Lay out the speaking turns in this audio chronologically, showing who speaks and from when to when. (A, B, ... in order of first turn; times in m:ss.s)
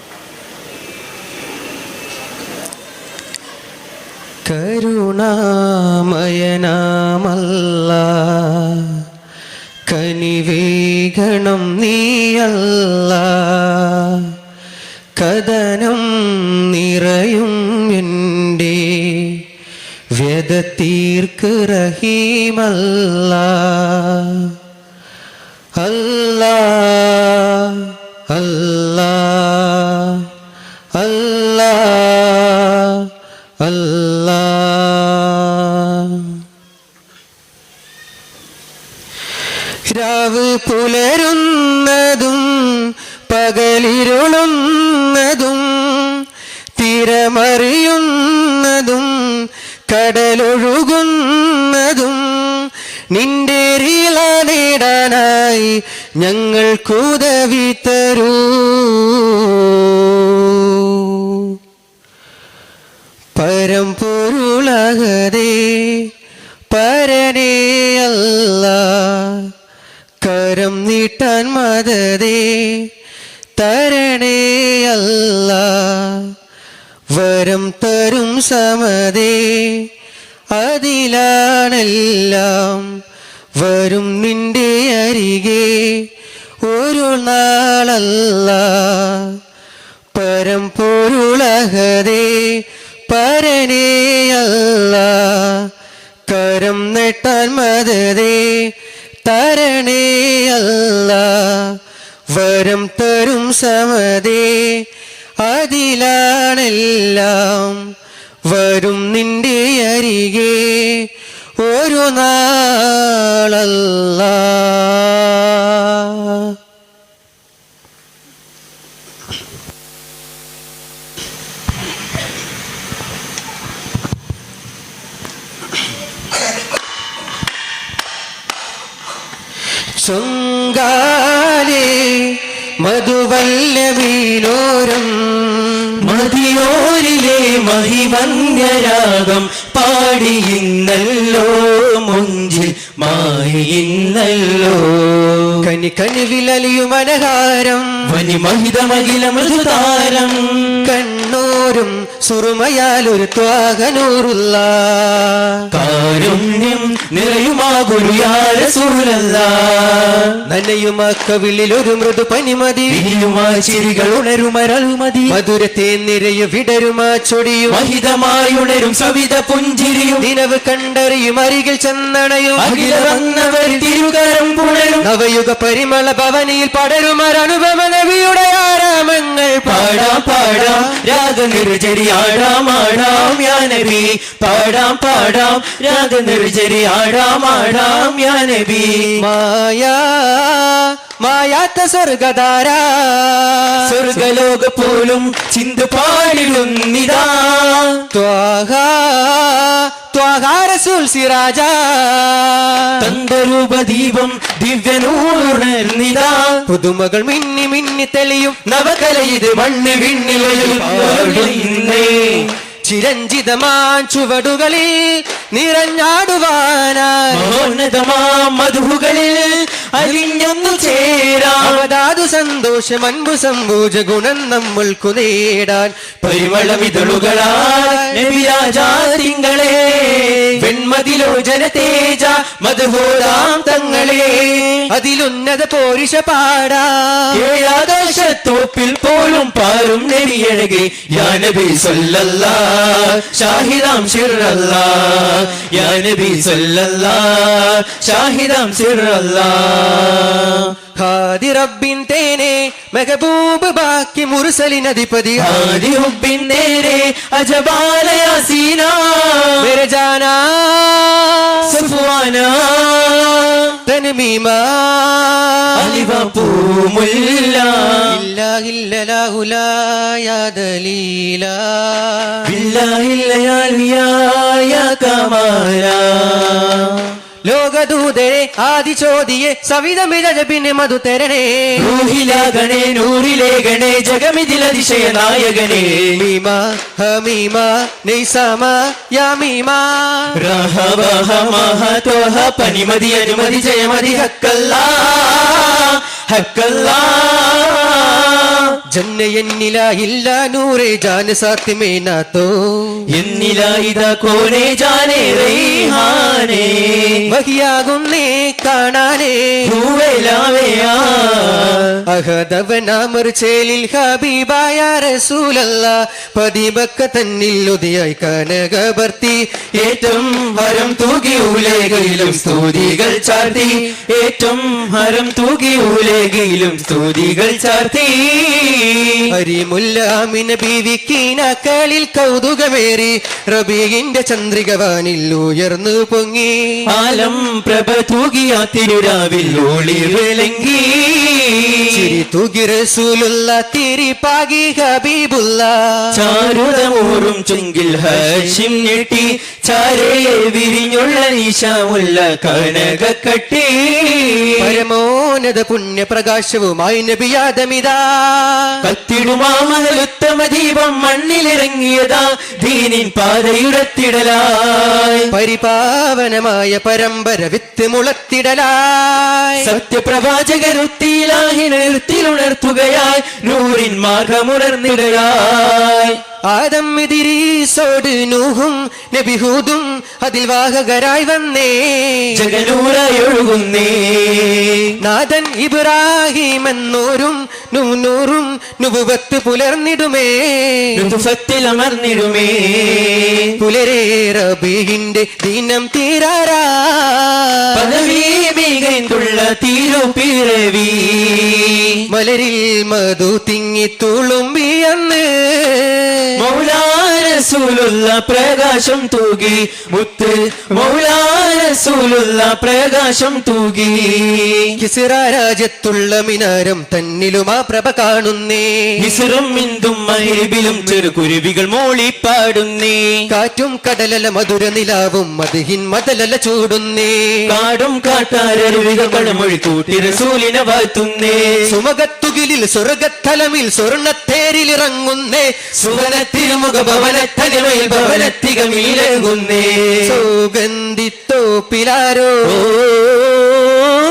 0:04.4-0:09.0 A
0:09.9-0:14.3 A
0:15.2-0:19.4 A
0:20.2-0:24.6 A
0:25.8-0:30.3 A
0:30.9-0:33.1 A
0:33.6-0:36.4 A
0:39.8-0:46.2 A
0:46.8-1:01.6 A
1:03.4-1:06.1 A
1:06.7-1:09.5 A
1:10.2-1:12.9 A
1:13.6-1:16.3 A
1:17.1-1:19.9 A
1:20.5-1:23.0 A
1:23.6-1:26.1 A
1:26.6-1:29.4 A
1:30.1-1:35.7 A
1:36.3-1:38.7 A
1:39.2-1:41.8 A
1:42.3-1:44.8 A
1:45.4-1:47.9 A
1:48.4-1:51.1 A
1:51.6-1:56.5 A
2:10.0-2:16.0 A
2:16.0-2:25.5 B
2:25.6-2:27.9 A
2:28.1-2:30.9 B
2:30.8-2:35.6 A
2:35.7-2:40.3 B
2:40.4-2:43.0 A
2:42.9-2:45.4 B
2:45.3-2:47.8 A
2:47.7-2:50.2 B
2:50.2-2:53.1 A
2:52.6-2:55.1 B
2:55.0-3:00.9 A
2:59.7-3:09.2 B
3:09.2-3:14.0 A
3:13.8-3:18.0 B
3:18.1-3:23.1 A
3:23.0-3:26.6 B
3:26.7-3:32.1 A
3:29.2-3:32.5 B
3:32.8-3:37.5 A
3:37.3-3:41.8 B
3:41.6-3:46.2 A
3:46.2-3:54.8 B
3:47.7-3:48.2 A
3:54.9-3:57.4 A
3:57.3-4:10.7 B
4:11.0-4:15.8 A
4:15.4-4:19.7 B
4:19.6-4:21.7 A
4:21.6-4:23.7 B
4:23.9-4:26.0 A
4:25.8-4:28.2 B
4:28.0-4:32.5 A
4:32.4-4:37.1 B
4:37.5-4:41.9 A
4:41.8-4:46.2 B
4:46.1-4:50.4 A
4:50.4-4:58.8 B
4:58.9-5:03.0 A
5:03.1-5:07.2 B
5:07.3-5:09.7 A
5:09.6-5:11.9 B
5:12.0-5:19.4 A
5:19.8-5:29.2 B
5:29.3-5:36.8 A
5:36.9-5:42.2 B
5:41.9-5:46.2 A
5:46.1-5:54.8 B
5:54.6-5:58.8 A
5:58.8-6:05.3 B
6:05.3-6:09.7 A
6:09.6-6:16.2 B
6:16.5-6:22.5 A
6:22.3-6:24.9 B
6:25.0-6:31.0 A
6:31.0-6:33.5 B
6:33.6-6:37.8 A
6:37.7-6:42.0 B
6:42.1-6:46.4 A
6:46.4-6:54.8 B
6:54.8-6:59.1 A
6:59.0-7:03.3 B
7:03.3-7:07.5 A
7:07.5-7:11.7 B
7:11.6-7:15.9 A
7:15.8-7:20.2 B
7:20.0-7:23.2 A
7:22.5-7:23.0 B